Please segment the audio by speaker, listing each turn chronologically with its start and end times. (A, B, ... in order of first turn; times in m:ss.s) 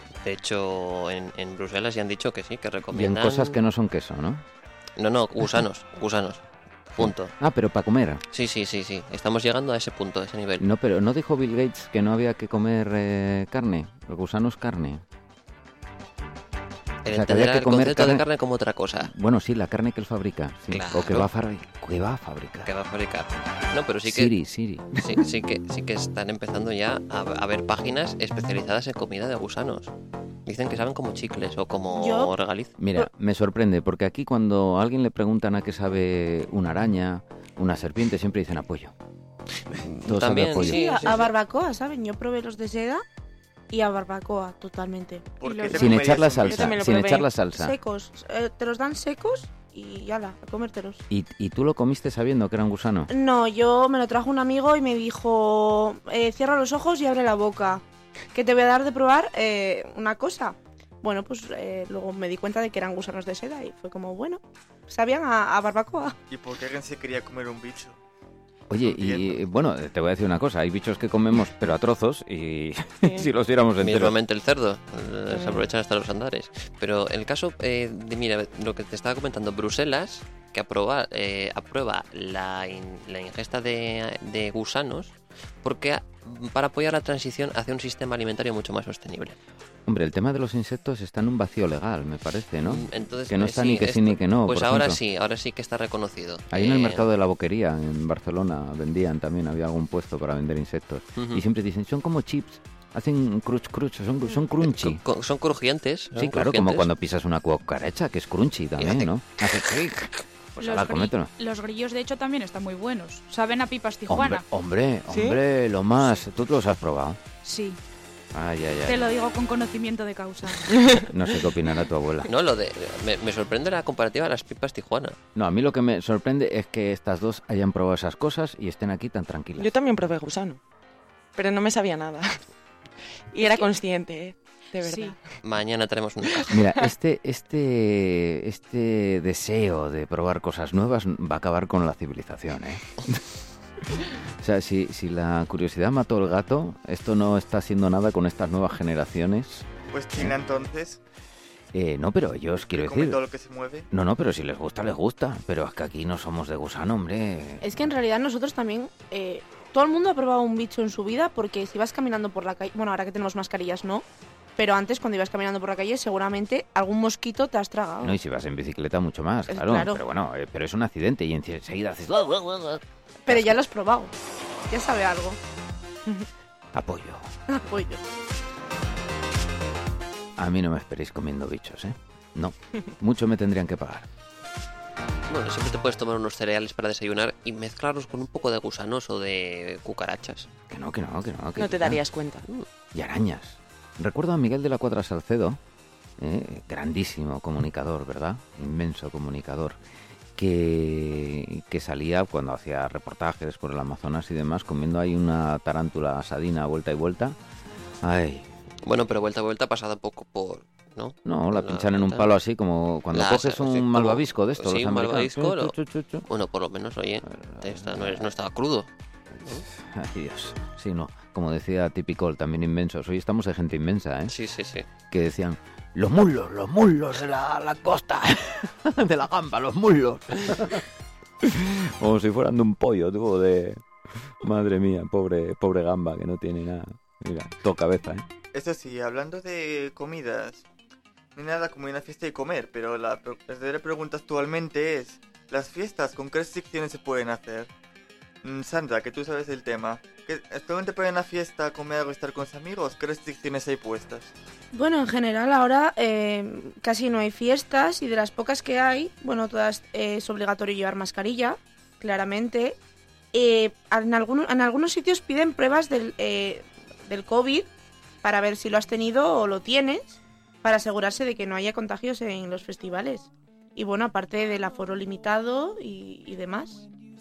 0:00.2-0:03.6 A
0:02.9-0:04.4 B
0:05.0-0:06.4 A
0:06.9-0:07.3 A
0:07.0-0:08.2 B
0:08.3-0:10.6 A
0:10.6-0:15.0 B
0:17.0-0:19.1 A
0:17.1-0:18.2 B
0:19.0-0:22.7 B
0:20.7-0:21.3 A
0:22.6-0:24.3 A
0:24.0-0:25.2 B
0:24.9-0:29.9 A
0:30.4-0:32.8 A
0:31.9-0:32.3 C
0:32.8-0:38.9 B
0:40.0-0:41.0 B
0:40.0-0:41.3 A
0:40.5-0:43.0 C
0:43.7-0:45.7 C
0:45.4-0:46.8 D
0:45.4-0:45.7 E
0:45.7-0:47.8 B
0:45.9-0:47.3 F
0:47.5-0:51.0 C
0:51.1-0:53.1 B
0:53.1-0:57.8 C
0:58.3-1:06.2 C
1:06.3-1:08.0 D
1:08.7-1:14.1 B
1:08.8-1:09.4 D
1:13.8-1:29.4 A
1:29.9-1:35.0 B
1:32.6-1:37.1 A
1:36.5-1:45.0 B
1:41.2-1:41.4 A
1:44.4-1:46.9 A
1:46.1-1:51.3 B
1:48.8-1:49.1 A
1:50.6-1:54.4 E
1:54.1-1:57.2 B
1:55.1-1:55.4 F
1:57.4-1:57.8 E
1:58.3-1:59.0 B
1:58.8-2:00.8 E
2:00.8-2:01.0 F
2:00.9-2:02.3 B
2:02.3-2:05.2 A
2:05.3-2:09.7 B
2:09.6-2:10.6 F
2:11.4-2:12.4 F
2:13.3-2:15.4 F
2:14.8-2:15.2 E
2:15.4-2:16.6 A
2:16.5-2:23.2 B
2:23.9-2:30.4 B
2:29.9-2:31.0 D
2:31.7-2:33.2 B
2:32.7-2:33.9 D
2:33.9-2:37.9 B
2:37.6-2:44.0 C
2:44.6-2:48.2 C
2:48.0-2:53.6 B
2:49.5-2:50.0 C
2:53.2-2:54.1 C
2:54.7-2:55.4 C
2:56.7-2:57.2 B
2:57.5-2:58.0 C
3:00.4-3:04.1 B
3:05.3-3:10.5 A
3:10.7-3:12.0 B
3:11.6-3:12.5 F
3:12.9-3:15.6 B
3:16.2-3:19.8 B
3:20.4-3:27.4 B
3:28.0-3:28.5 B
3:28.8-3:32.3 A
3:31.2-3:36.2 B
3:33.1-3:35.7 A
3:36.3-3:38.9 A
3:37.3-3:38.3 B
3:39.5-3:44.3 B
3:44.3-3:44.8 A
3:45.1-3:50.8 B
3:51.4-3:58.2 B
3:58.5-4:00.6 D
4:01.3-4:07.7 D
4:08.4-4:14.3 D
4:14.7-4:22.8 C
4:23.3-4:27.7 C
4:28.2-4:36.8 C